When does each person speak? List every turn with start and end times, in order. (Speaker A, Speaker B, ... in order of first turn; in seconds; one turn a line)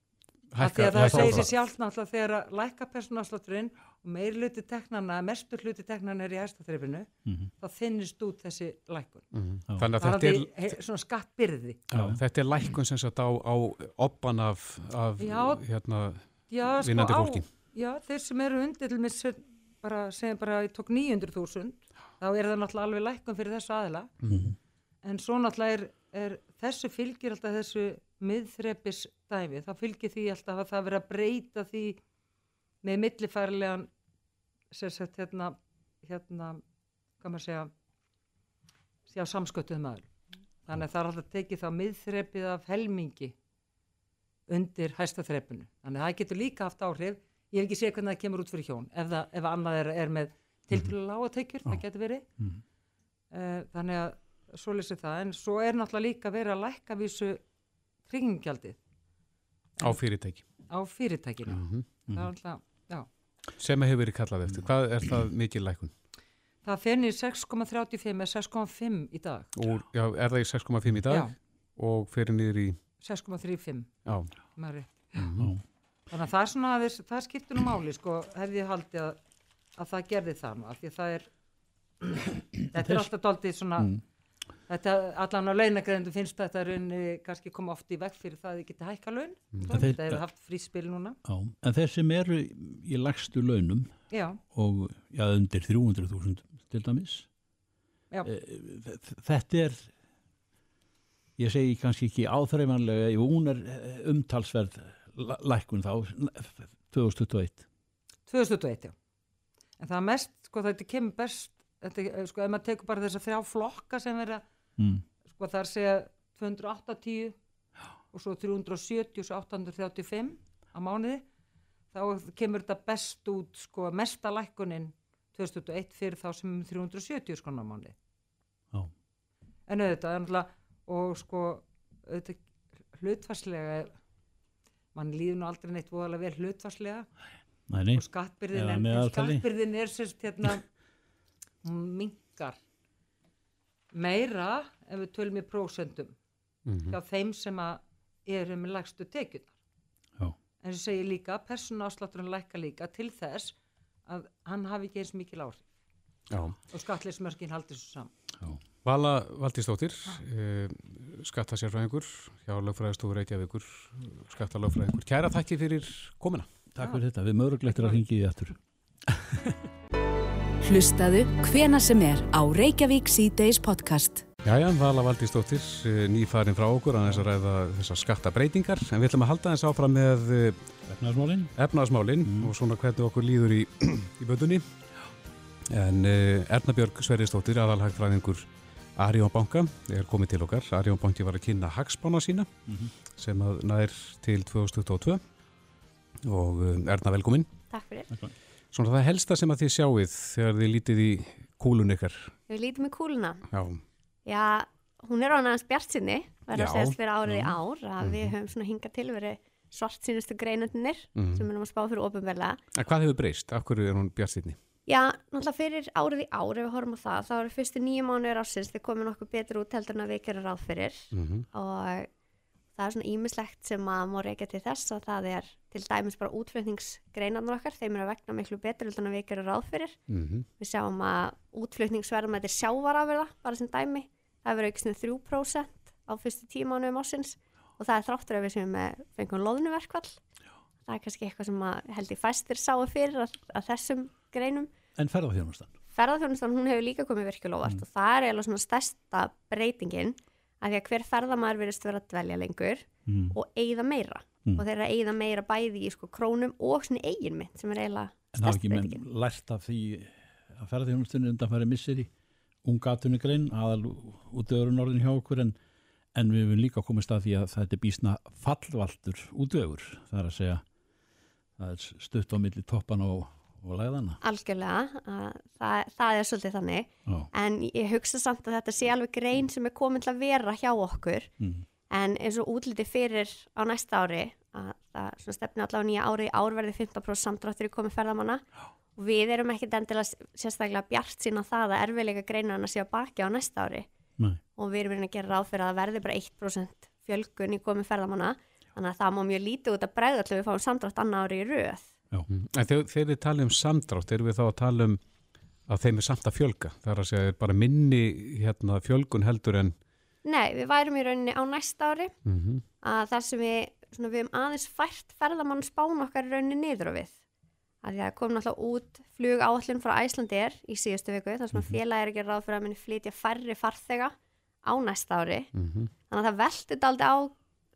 Speaker A: 0.5-1.6
Speaker B: 0.6-7.1
Speaker C: 0.9-1.5
Speaker C: 7.3-7.5
Speaker B: 7.6-9.3
Speaker A: 9.3-10.7
Speaker B: 10.0-11.8
Speaker A: 11.9-17.5
Speaker C: 11.9-12.2
Speaker B: 15.2-15.6
Speaker B: 16.5-24.1
Speaker C: 24.3-24.6
Speaker B: 25.0-32.0
Speaker B: 32.8-33.9
Speaker B: 34.7-36.6
Speaker B: 37.2-37.7
Speaker B: 39.1-40.1
Speaker B: 40.7-43.3
Speaker B: 44.5-52.2
Speaker B: 53.3-57.4
Speaker B: 58.1-58.8
Speaker A: 59.8-60.5
Speaker B: 60.7-63.1
Speaker A: 61.5-62.0
Speaker A: 63.6-65.9
Speaker B: 66.7-69.5
Speaker A: 69.5-72.8
Speaker B: 71.1-71.3
Speaker B: 73.0-73.9
Speaker A: 74.0-74.3
Speaker B: 74.6-74.9
Speaker A: 75.2-75.5
Speaker B: 76.1-79.2
Speaker B: 79.8-81.3
Speaker B: 82.7-83.9
Speaker C: 82.8-83.1
Speaker B: 84.7-91.2
Speaker A: 89.5-89.9
Speaker C: 89.7-90.2
Speaker C: 91.2-93.9
Speaker B: 94.1-94.4
Speaker C: 94.5-97.3
Speaker C: 98.2-99.9
Speaker C: 101.4-107.6
Speaker B: 108.3-108.9
Speaker B: 109.8-114.4
Speaker C: 114.8-115.0
Speaker B: 115.3-117.4
Speaker B: 118.1-121.2
Speaker B: 121.9-128.0
Speaker B: 129.7-132.4
Speaker B: 132.9-133.9
Speaker B: 134.9-137.1
Speaker C: 137.7-139.4
Speaker B: 137.9-140.6
Speaker B: 141.6-142.6
Speaker B: 143.9-146.2
Speaker A: 146.7-147.0
Speaker B: 146.9-149.5
Speaker B: 150.6-153.6
Speaker B: 154.1-155.6
Speaker A: 156.3-156.6
Speaker B: 156.7-158.1
Speaker A: 158.8-166.5
Speaker C: 166.8-168.6
Speaker B: 167.7-168.0
Speaker C: 169.1-169.6
Speaker D: 170.6-174.2
Speaker A: 174.4-180.6
Speaker C: 180.9-181.5
Speaker A: 181.6-184.7
Speaker C: 182.2-182.5
Speaker A: 185.7-192.5
Speaker A: 193.2-195.2
Speaker A: 196.3-197.5
Speaker E: 197.7-198.1
Speaker A: 198.7-202.3
Speaker E: 202.5-203.5
Speaker A: 203.5-203.8
Speaker E: 204.3-212.6
Speaker A: 206.5-208.3
Speaker A: 211.2-211.5
Speaker A: 212.8-214.6
Speaker E: 214.9-222.1
Speaker A: 221.1-221.5
Speaker E: 222.8-230.0
Speaker A: 230.1-230.5
Speaker E: 230.6-240.2
Speaker E: 240.9-244.7
Speaker C: 245.0-245.7
Speaker E: 245.9-259.0
Speaker C: 253.1-253.4
Speaker C: 258.3-262.1
Speaker C: 262.6-265.6
Speaker C: 266.1-270.6
Speaker C: 271.6-274.2
Speaker E: 274.2-281.3
Speaker C: 281.4-281.6
Speaker E: 281.9-288.4
Speaker E: 289.0-293.9
Speaker E: 294.6-301.9
Speaker A: 302.3-305.0
Speaker A: 305.7-309.8
Speaker E: 310.2-312.2
Speaker A: 312.3-312.6
Speaker E: 312.8-317.2
Speaker E: 317.8-325.5
Speaker A: 321.5-321.8
Speaker A: 325.5-325.9
Speaker E: 326.1-327.4